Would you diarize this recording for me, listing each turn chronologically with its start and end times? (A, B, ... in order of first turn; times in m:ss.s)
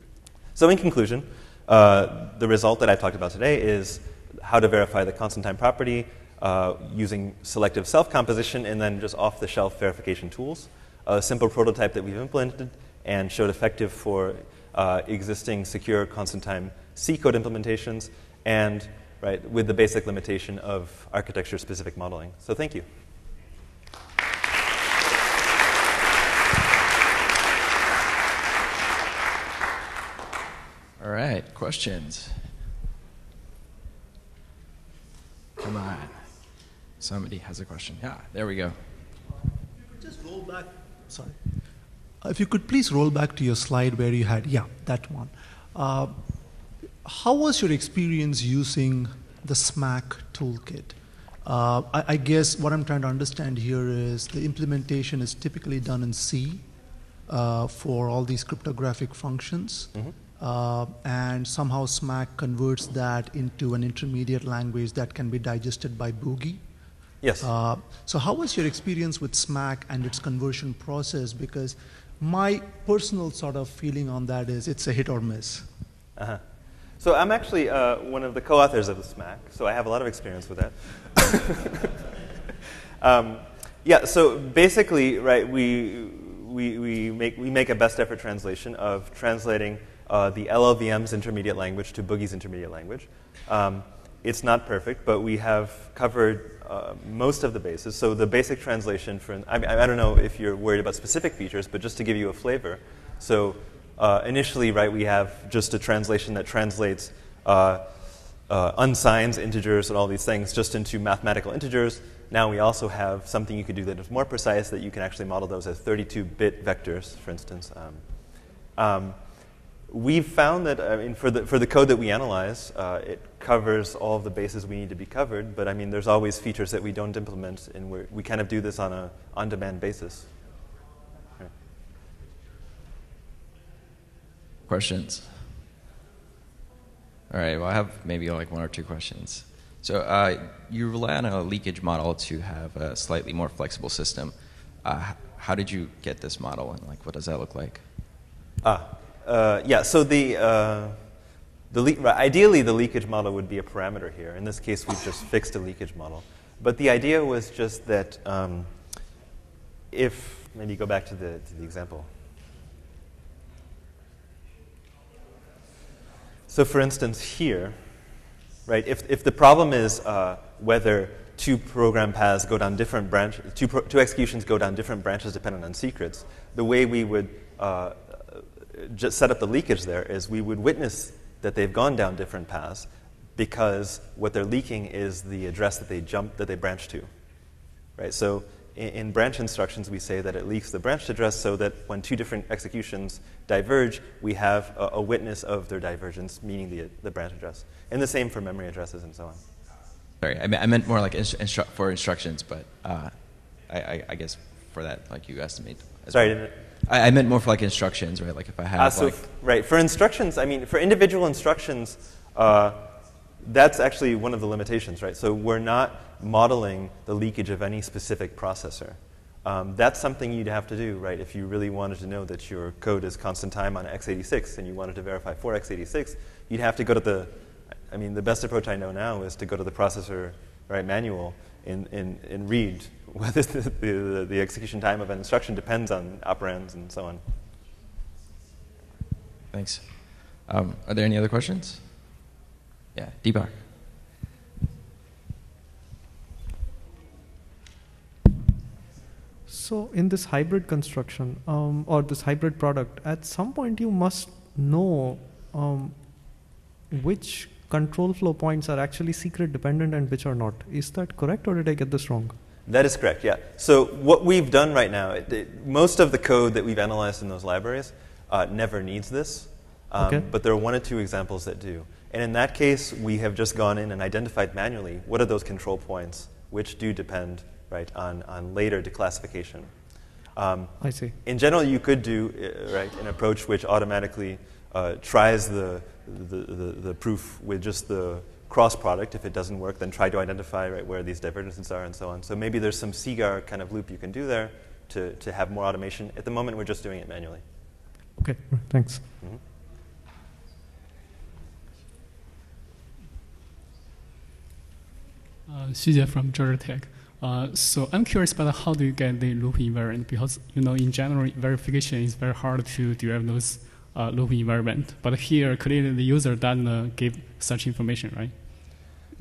0:00.5-0:22.8 A
0:31.0-0:32.4 B
0:35.6-0:36.2 B
0:37.0-0:38.8 B
0:39.8-0:41.4 C
0:42.2-0:46.2 C
0:47.0-0:56.7 C
0:57.3-1:06.6 C
1:07.2-1:07.5 A
1:07.4-1:15.7 C
1:17.0-1:21.9 A
1:23.0-1:47.9 A
1:48.5-1:58.0 A
1:58.8-1:59.2 A
1:59.9-2:10.3 A
2:14.6-2:15.5 B
2:17.3-2:27.8 B
2:28.6-2:31.0 A
2:31.7-2:38.7 A
2:39.9-2:42.1 A
2:46.5-2:47.8 A
2:48.6-3:07.1 A
3:08.0-3:19.4 A
3:20.2-3:29.2 B
3:26.1-3:26.5 A
3:28.8-3:32.9 A
3:33.4-3:47.3 A
3:47.9-3:57.2 A
3:59.5-4:02.1 B
4:02.9-4:03.7 B
4:09.5-4:22.3 D
4:22.6-4:39.7 A
4:30.0-4:30.2 D
4:40.3-4:57.4 A
4:40.8-4:41.1 D
4:58.2-4:59.0 D
5:05.5-5:19.0 E